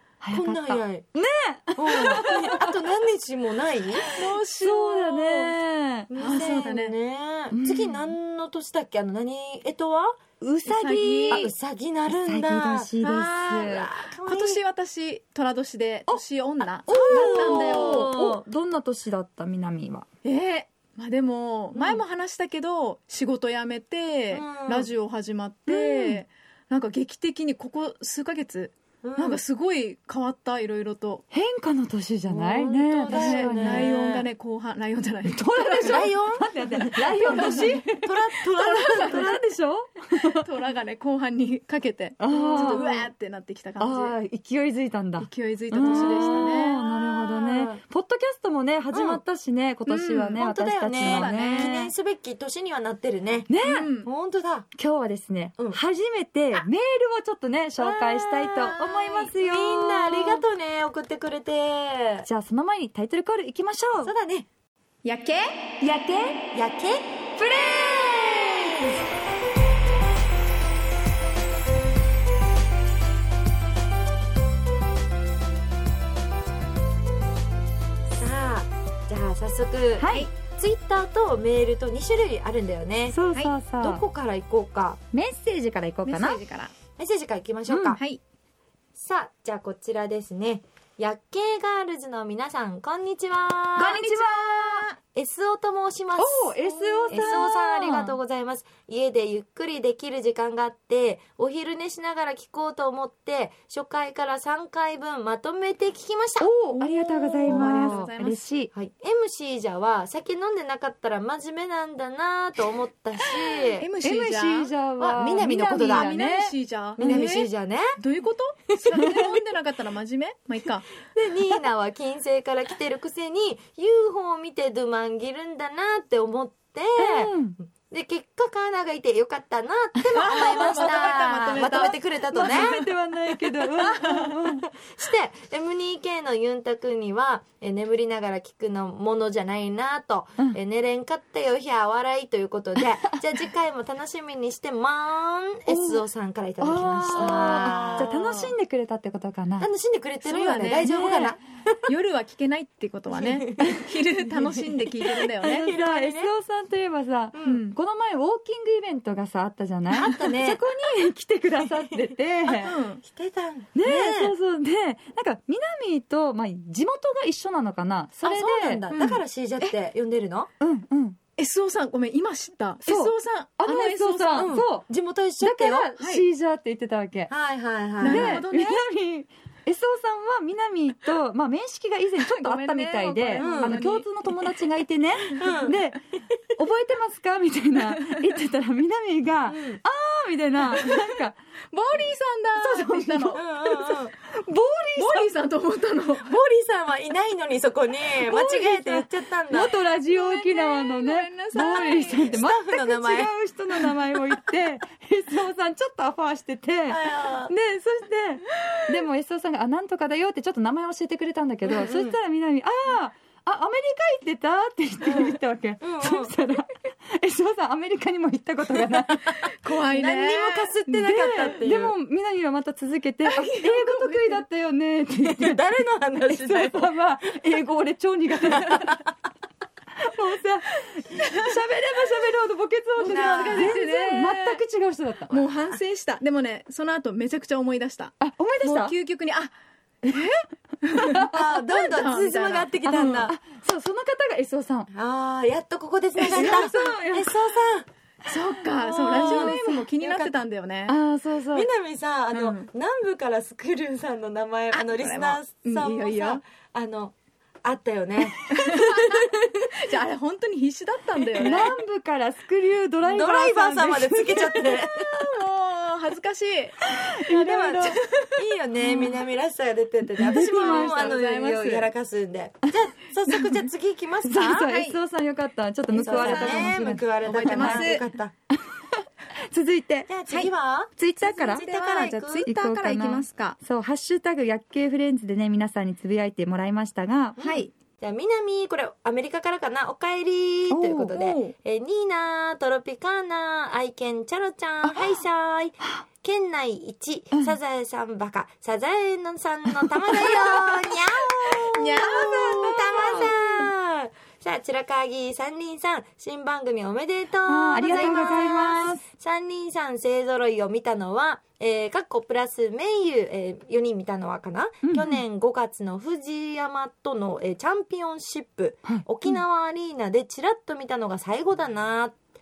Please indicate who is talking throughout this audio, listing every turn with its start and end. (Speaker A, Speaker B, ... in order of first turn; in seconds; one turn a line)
Speaker A: 0.2-2.7
Speaker B: 0.3-1.0
Speaker B: 1.8-4.1
Speaker C: 4.1-5.5
Speaker A: 4.6-6.6
Speaker B: 6.1-10.2
Speaker C: 6.2-7.0
Speaker A: 7.5-8.1
Speaker A: 10.4-11.5
Speaker C: 10.7-11.5
Speaker B: 11.3-12.9
Speaker A: 12.2-13.9
Speaker C: 13.0-18.1
Speaker B: 13.5-14.6
Speaker A: 16.9-20.1
Speaker B: 16.9-18.4
Speaker C: 20.2-31.2
Speaker B: 21.7-22.0
Speaker B: 24.3-24.9
Speaker A: 25.7-26.2
Speaker B: 29.0-29.4
Speaker A: 31.3-34.0
Speaker B: 32.2-34.2
Speaker C: 33.1-39.4
Speaker A: 35.3-38.0
Speaker B: 35.8-39.4
Speaker A: 38.7-40.4
Speaker C: 40.1-44.2
Speaker A: 42.2-43.1
Speaker B: 42.5-43.0
Speaker A: 43.8-51.8
Speaker C: 45.2-46.8
Speaker B: 45.8-47.8
Speaker B: 48.9-49.2
Speaker C: 49.9-50.4
Speaker B: 50.3-53.5
Speaker C: 51.0-51.9
Speaker A: 53.5-53.9
Speaker C: 53.6-54.1
Speaker B: 54.0-54.7
Speaker A: 54.8-60.4
Speaker B: 57.8-62.3
Speaker A: 62.2-64.1
Speaker B: 64.0-64.5
Speaker C: 65.0-65.6
Speaker A: 65.8-66.5
Speaker B: 66.5-67.1
Speaker A: 67.4-68.9
Speaker B: 78.2-83.2
Speaker A: 80.0-80.3
Speaker A: 83.1-84.0
Speaker B: 83.8-85.0
Speaker A: 85.1-86.4
Speaker C: 86.0-86.7
Speaker B: 87.0-88.0
Speaker A: 87.7-88.0
Speaker B: 89.0-94.0
Speaker A: 93.8-94.9
Speaker C: 93.8-95.0
Speaker B: 95.1-106.5
Speaker A: 96.2-98.2
Speaker C: 96.6-97.4
Speaker A: 106.4-108.7
Speaker C: 106.7-108.5
Speaker B: 107.5-108.1
Speaker B: 108.7-113.9
Speaker C: 113.8-114.7
Speaker A: 114.0-117.2
Speaker B: 115.0-116.1
Speaker C: 115.7-120.9
Speaker B: 117.0-117.9
Speaker B: 118.8-119.2
Speaker B: 121.0-132.8
Speaker A: 127.0-127.6
Speaker A: 130.0-134.7
Speaker C: 130.1-132.7
Speaker C: 133.5-134.3
Speaker B: 133.9-148.2
Speaker A: 145.7-146.0
Speaker A: 146.6-149.7
Speaker C: 147.1-148.5
Speaker B: 149.6-151.9
Speaker C: 150.2-150.9
Speaker A: 150.8-151.3
Speaker C: 151.9-155.7
Speaker B: 153.2-153.7
Speaker A: 153.6-153.9
Speaker A: 155.4-162.7
Speaker B: 155.4-156.3
Speaker B: 157.3-157.6
Speaker C: 157.4-157.7
Speaker B: 159.9-160.6
Speaker B: 161.6-162.1
Speaker C: 162.5-163.0
Speaker B: 163.0-164.3
Speaker A: 163.7-168.8
Speaker B: 168.2-170.5
Speaker C: 168.9-169.7
Speaker A: 170.6-171.2
Speaker C: 171.4-174.6
Speaker A: 172.9-174.8
Speaker B: 174.3-175.9
Speaker A: 175.4-177.3
Speaker C: 176.0-176.2
Speaker B: 177.3-178.5
Speaker C: 178.0-178.8
Speaker A: 178.0-186.0
Speaker C: 182.2-184.5
Speaker B: 183.4-183.8
Speaker B: 185.3-185.8
Speaker A: 186.6-191.4
Speaker B: 189.5-189.8
Speaker C: 190.7-191.2
Speaker C: 191.7-193.4
Speaker A: 192.6-195.3
Speaker B: 193.3-194.1
Speaker C: 194.9-196.3
Speaker B: 196.2-199.7
Speaker A: 198.2-219.4
Speaker C: 199.9-202.4
Speaker B: 201.6-203.3
Speaker B: 206.9-207.5
Speaker B: 211.6-212.2
Speaker B: 215.0-216.3
Speaker C: 219.6-220.8
Speaker B: 219.9-221.9
Speaker A: 220.9-225.6
Speaker C: 223.2-224.4
Speaker B: 225.3-226.9
Speaker A: 226.2-229.0
Speaker B: 228.5-229.0
Speaker A: 230.0-235.7
Speaker C: 231.1-231.6
Speaker C: 233.0-234.6
Speaker B: 233.1-233.8
Speaker C: 235.3-239.5
Speaker A: 238.2-238.9
Speaker C: 240.0-243.3
Speaker A: 241.0-241.5
Speaker B: 241.3-243.3
Speaker A: 243.2-244.9
Speaker B: 244.9-247.9
Speaker C: 246.2-246.6
Speaker A: 246.3-247.4
Speaker C: 248.3-250.9
Speaker B: 248.8-250.3
Speaker A: 248.9-249.9
Speaker A: 250.9-251.7
Speaker B: 251.5-259.4
Speaker C: 252.3-252.7
Speaker C: 254.7-256.4
Speaker C: 258.5-261.7
Speaker B: 261.3-261.8
Speaker A: 261.4-264.8
Speaker B: 263.0-265.1
Speaker C: 264.8-266.8
Speaker A: 266.9-268.0
Speaker B: 267.3-274.7
Speaker C: 267.8-268.4
Speaker A: 268.8-269.1
Speaker A: 270.2-271.1
Speaker C: 270.3-271.9
Speaker A: 273.3-273.6
Speaker A: 274.2-278.0
Speaker C: 274.4-275.0
Speaker C: 275.9-278.0
Speaker B: 276.0-278.3
Speaker A: 279.5-280.1
Speaker B: 280.1-282.5
Speaker A: 281.0-281.6
Speaker C: 281.2-283.6
Speaker A: 282.4-287.4
Speaker B: 287.4-322.2
Speaker C: 287.4-287.7
Speaker A: 290.7-291.2
Speaker C: 291.1-291.5
Speaker A: 294.8-295.1
Speaker A: 299.7-303.7
Speaker C: 301.7-302.6
Speaker A: 307.4-309.0
Speaker C: 307.8-308.4
Speaker A: 314.8-315.2
Speaker A: 318.8-319.4